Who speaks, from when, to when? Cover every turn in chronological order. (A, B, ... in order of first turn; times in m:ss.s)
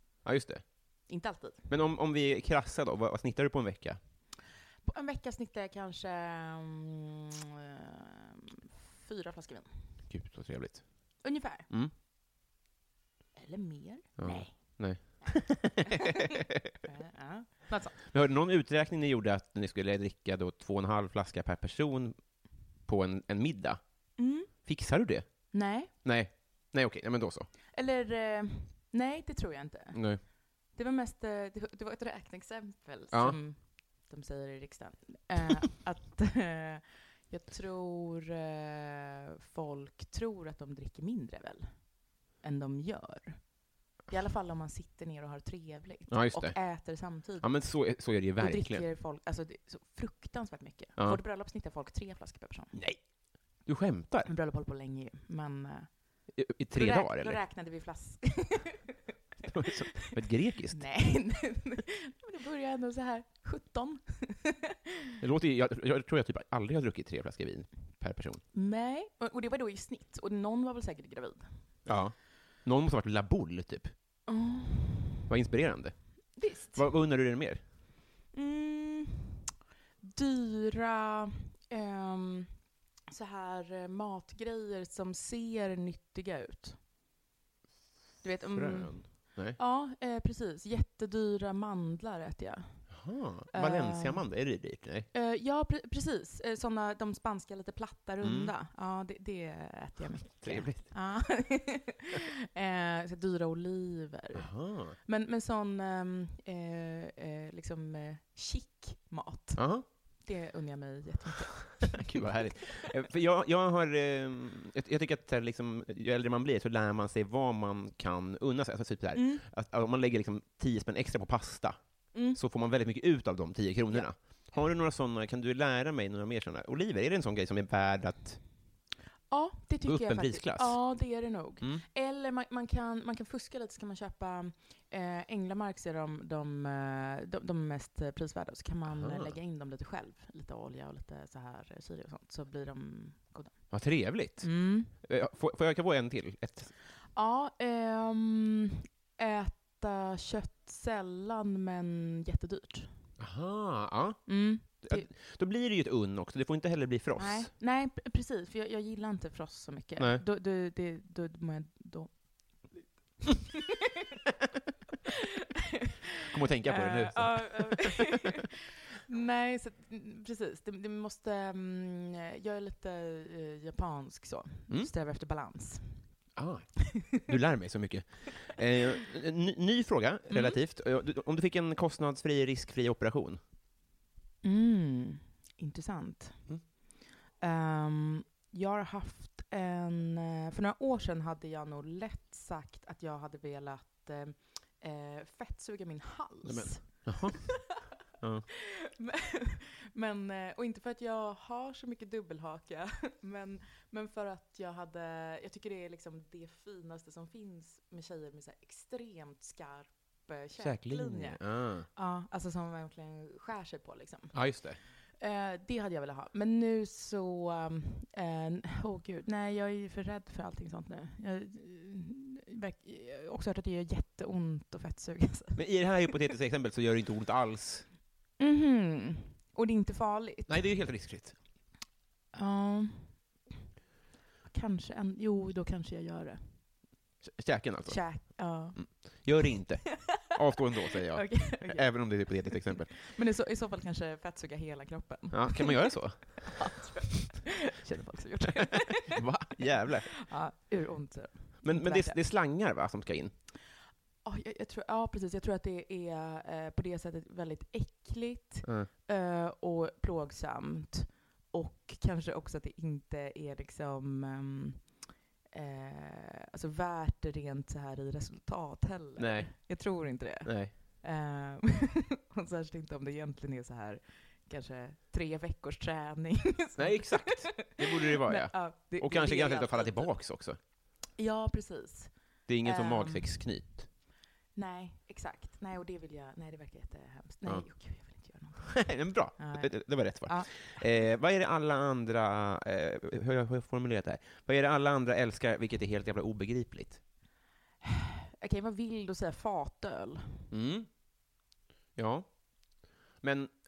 0:00.2-0:01.0 A
0:01.1-0:01.7 B
0:01.7-0:04.0 A
0:04.8-0:09.7 B
0:10.1-0:11.9 A
0:11.2-0:11.7 B
0:13.3-0:15.4 B
0:14.2-0:16.1 A
0:16.8-0:18.0 B
0:18.1-0:27.5 A
0:24.2-0:24.7 B
0:25.5-0:25.9 B
0:27.7-0:52.8 B
0:29.9-0:30.2 A
0:33.1-0:33.4 A
0:46.1-0:48.9 A
0:52.7-0:54.3 A
0:54.2-0:56.2 B
0:56.3-0:57.4 A
0:56.7-0:59.0 B
0:59.4-1:00.8 A
1:00.7-1:04.8 B
1:05.2-1:08.4 A
1:08.5-1:11.7 B
1:11.8-1:13.9 A
1:14.3-1:15.2 B
1:15.3-1:17.6 A
1:16.4-1:16.8 B
1:18.3-1:19.4 B
1:20.0-1:26.8 B
1:28.2-1:52.3 B
1:28.5-1:29.6 A
1:32.9-1:35.1 A
1:38.2-1:38.5 A
1:40.4-1:41.3 A
1:44.3-1:45.0 A
1:49.6-1:49.9 A
1:51.9-2:08.5 A
1:59.1-1:59.4 B
2:02.1-2:02.4 B
2:09.3-2:24.9 B
2:09.8-2:11.8 A
2:18.9-2:19.3 A
2:23.7-2:26.7 A
2:27.1-2:33.1 B
2:33.2-2:37.5 A
2:34.2-2:35.1 B
2:37.2-2:43.6 B
2:46.3-2:48.1 A
2:46.6-2:56.1 B
2:56.4-3:03.4 A
3:00.3-3:00.6 B
3:04.4-3:17.8 B
3:16.4-3:18.5 A
3:18.9-3:46.2 B
3:30.6-3:31.9 A
3:34.3-3:34.8 A
3:45.5-3:47.9 A
3:48.4-3:50.7 B
3:50.5-3:51.4 A
3:52.3-3:53.4 B
3:54.4-3:56.6 B
3:57.2-4:02.9 A
3:57.8-4:00.2 B
4:01.1-4:12.2 B
4:05.3-4:06.7 A
4:09.1-4:10.4 A
4:11.6-4:13.4 A
4:14.2-4:40.3 B
4:18.6-4:18.9 A
4:29.2-4:30.7 A
4:36.8-4:40.6 A
4:41.2-4:43.6 B
4:42.5-4:43.9 A
4:44.5-4:50.9 B
4:47.4-4:57.0 A
4:57.8-5:00.4 B
5:00.5-5:00.9 A
5:01.9-5:03.5 A